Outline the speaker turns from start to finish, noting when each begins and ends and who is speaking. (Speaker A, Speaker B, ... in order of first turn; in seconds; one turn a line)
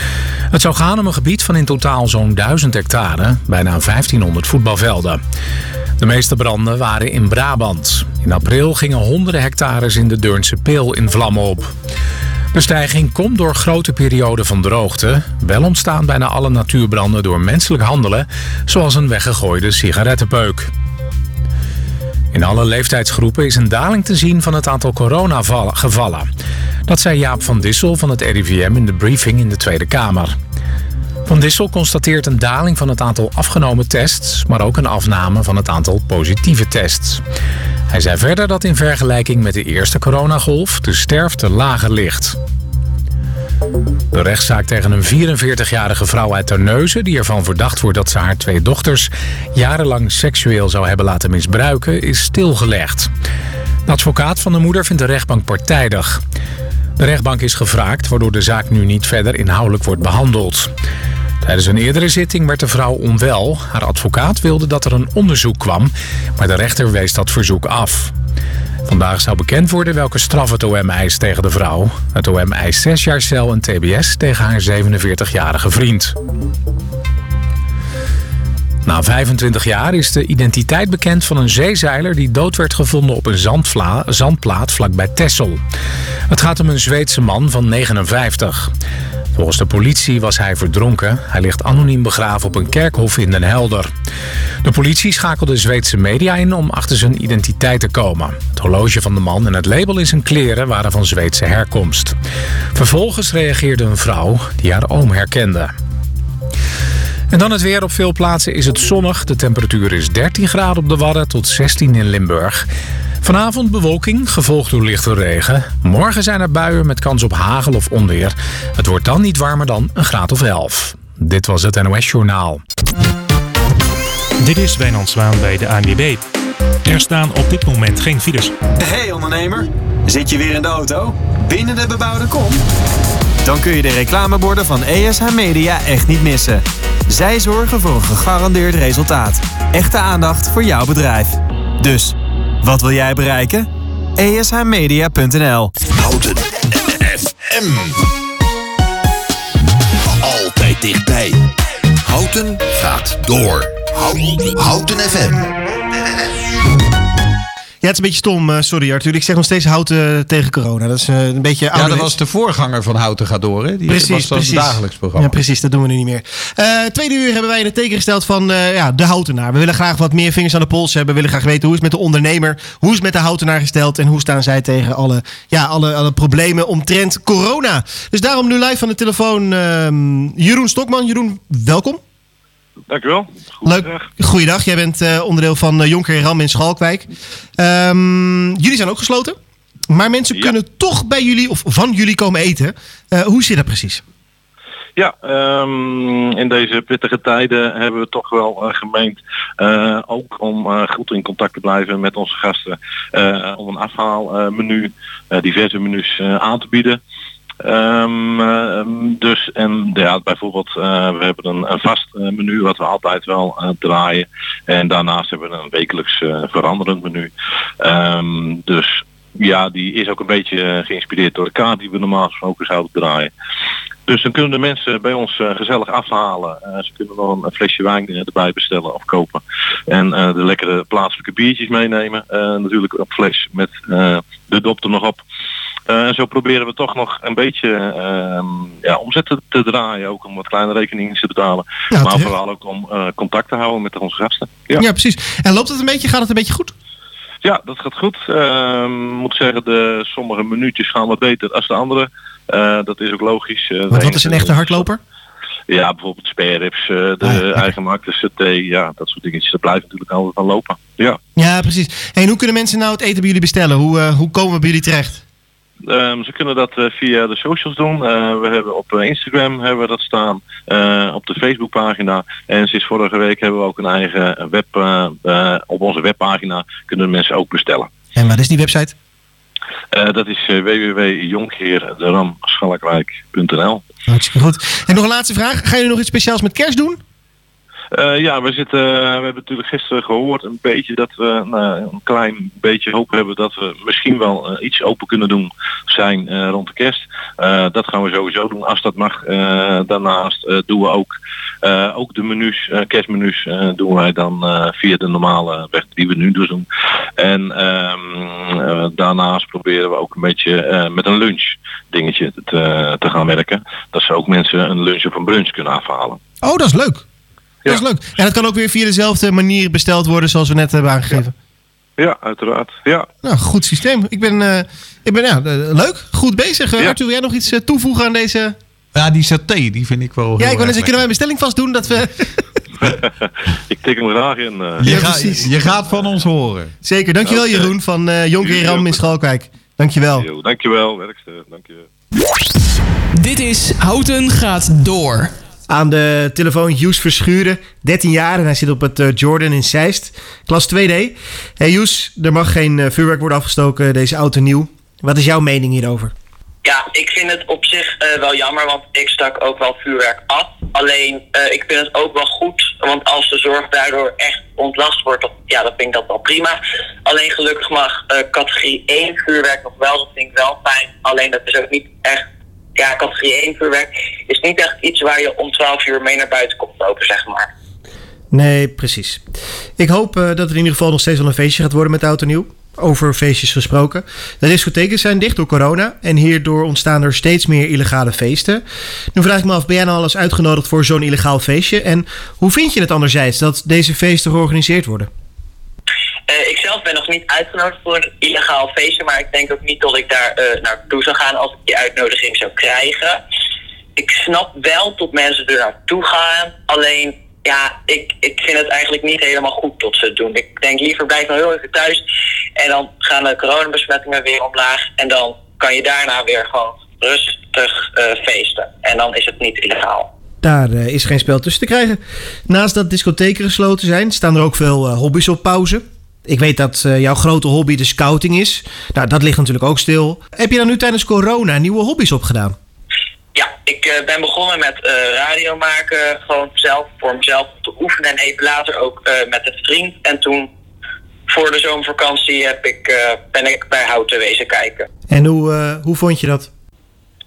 Speaker A: 0.5-5.2
Speaker A: 6.0-11.7
Speaker A: 12.5-20.7
Speaker A: 22.3-26.3
Speaker A: 26.9-30.4
Speaker A: 31.3-37.2
Speaker A: 37.9-42.4
Speaker A: 44.1-53.1
Speaker A: 53.9-56.2
Speaker A: 57.0-60.7
Speaker A: 61.4-68.1
Speaker A: 68.9-76.1
Speaker A: 78.9-85.6
Speaker A: 86.3-88.7
Speaker A: 89.4-93.9
Speaker A: 94.6-102.1
Speaker A: 102.8-105.7
Speaker A: 107.3-112.7
Speaker A: 113.2-122.6
Speaker B: 124.4-126.2
Speaker B: 126.8-128.5
Speaker C: 128.8-132.6
Speaker C: 133.4-145.7
Speaker D: 146.0-147.9
Speaker D: 150.1-151.4
Speaker D: 152.1-155.5
Speaker E: 157.8-162.1
Speaker F: 161.7-165.3
Speaker E: 163.9-182.0
Speaker G: 182.9-184.1
Speaker E: 183.6-187.1
Speaker E: 187.6-189.4
Speaker E: 189.9-194.0
Speaker G: 195.0-207.0
Speaker G: 207.6-223.3
Speaker G: 224.1-235.2
Speaker G: 235.9-244.9
Speaker E: 241.9-242.3
Speaker E: 244.8-246.7
Speaker G: 247.4-254.9
Speaker E: 253.9-255.0
Speaker G: 255.7-261.2
Speaker E: 257.2-257.6
Speaker E: 261.4-265.2
Speaker G: 265.8-277.9
Speaker E: 278.1-278.9
Speaker G: 279.9-283.8
Speaker E: 284.1-287.0
Speaker G: 287.9-306.7
Speaker G: 307.2-316.2
Speaker E: 316.4-317.0
Speaker E: 317.7-321.3
Speaker G: 322.0-323.1
Speaker E: 323.2-328.6
Speaker F: 328.9-331.0
Speaker E: 330.4-332.3
Speaker G: 332.8-335.4
Speaker F: 334.8-336.7
Speaker E: 334.9-335.5
Speaker E: 336.8-340.3
Speaker G: 337.2-337.7
Speaker G: 338.4-339.1
Speaker G: 340.1-341.9
Speaker H: 343.1-345.3
Speaker E: 345.7-356.1
Speaker I: 356.6-372.2
Speaker I: 372.8-377.5
Speaker E: 378.3-379.2
Speaker E: 379.8-388.6
Speaker E: 389.1-395.1
Speaker I: 396.3-403.2
Speaker I: 404.0-412.0
Speaker I: 412.6-420.1
Speaker E: 420.4-432.6
Speaker I: 433.4-440.5
Speaker I: 441.3-444.9
Speaker E: 445.1-446.5